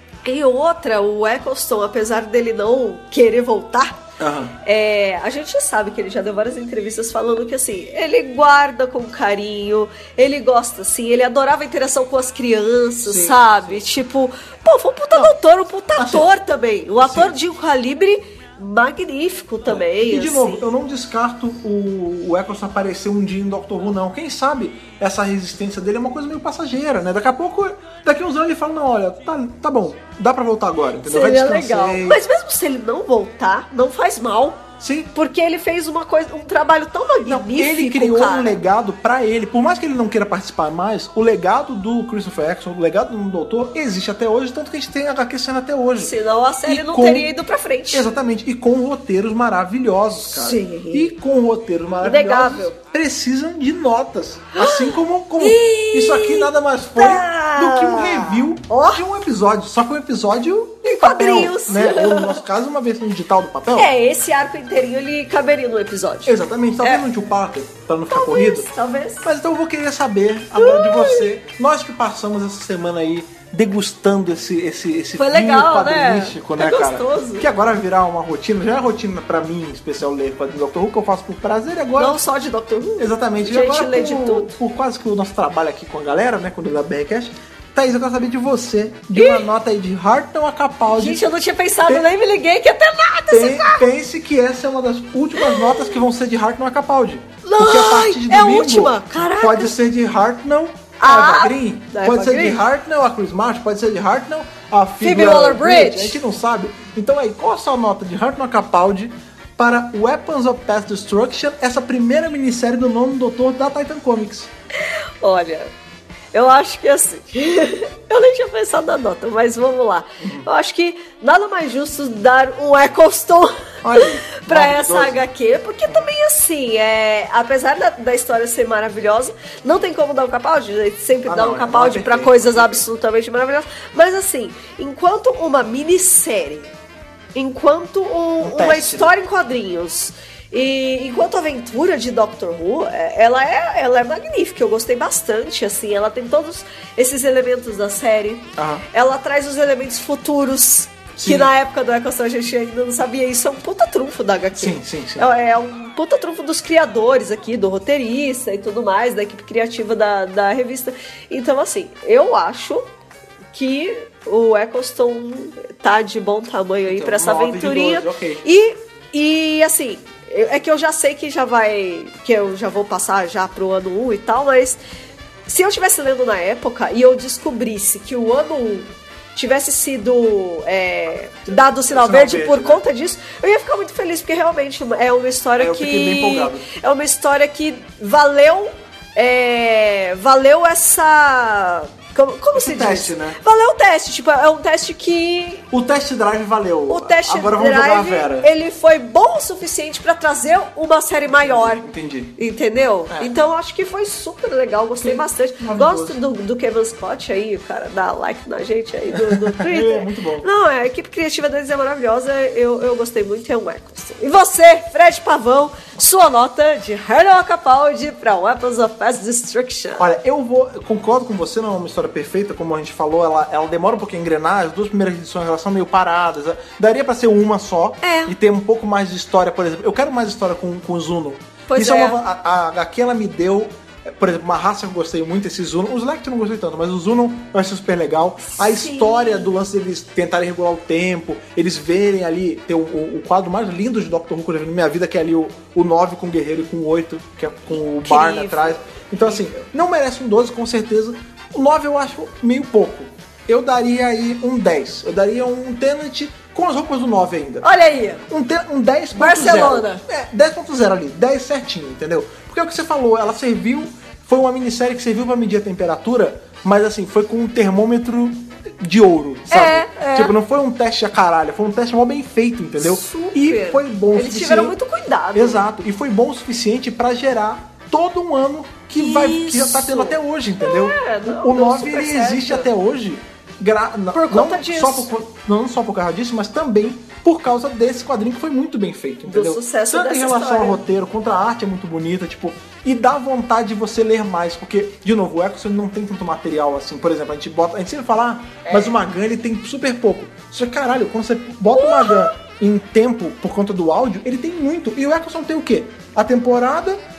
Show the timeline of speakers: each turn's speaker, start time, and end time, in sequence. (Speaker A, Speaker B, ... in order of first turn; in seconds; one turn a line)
Speaker A: 0.2-4.0
Speaker B: 4.2-4.5
Speaker A: 4.6-20.6
Speaker B: 13.0-13.8
Speaker B: 15.9-16.3
Speaker B: 17.0-17.3
Speaker B: 19.6-32.2
Speaker A: 31.1-38.6
Speaker B: 34.8-35.1
Speaker B: 37.2-47.3
Speaker A: 46.0-48.1
Speaker B: 47.9-63.9
Speaker A: 50.3-51.1
Speaker A: 52.0-52.7
Speaker A: 54.5-59.0
Speaker A: 60.8-62.4
Speaker A: 63.8-67.0
Speaker B: 66.2-68.7
Speaker A: 68.1-69.3
Speaker B: 69.2-82.2
Speaker A: 70.5-71.3
Speaker A: 75.2-77.5
Speaker A: 82.0-84.5
Speaker B: 83.0-91.3
Speaker A: 89.1-89.5
Speaker A: 90.9-93.9
Speaker B: 93.3-114.5
Speaker A: 95.4-96.0
Speaker A: 97.4-99.8
Speaker A: 101.0-102.6
Speaker A: 105.0-106.2
Speaker A: 114.9-115.7
Speaker A: 116.3-136.7
Speaker B: 120.2-120.5
Speaker B: 123.8-125.2
Speaker B: 131.3-132.8
Speaker A: 137.3-162.8
Speaker B: 138.4-139.1
Speaker B: 148.6-148.8
Speaker B: 151.2-151.5
Speaker B: 154.5-155.3
Speaker A: 163.5-174.8
Speaker B: 166.8-168.4
Speaker A: 175.5-195.7
Speaker B: 181.9-182.8
Speaker B: 185.6-186.7
Speaker B: 192.5-193.4
Speaker B: 195.7-198.5
Speaker A: 196.9-201.8
Speaker B: 201.3-202.3
Speaker A: 202.4-220.1
Speaker B: 205.0-206.2
Speaker B: 209.1-210.5
Speaker B: 220.0-257.7
Speaker A: 228.0-228.3
Speaker A: 231.7-232.2
Speaker A: 238.4-239.5
Speaker A: 247.9-249.4
Speaker A: 257.6-258.2
Speaker B: 258.3-274.8
Speaker A: 259.1-260.0
Speaker A: 269.5-270.3
Speaker A: 272.8-275.6
Speaker B: 275.3-307.0
Speaker A: 279.0-282.6
Speaker A: 284.1-285.1
Speaker A: 289.3-290.8
Speaker A: 298.6-298.9
Speaker A: 301.7-302.3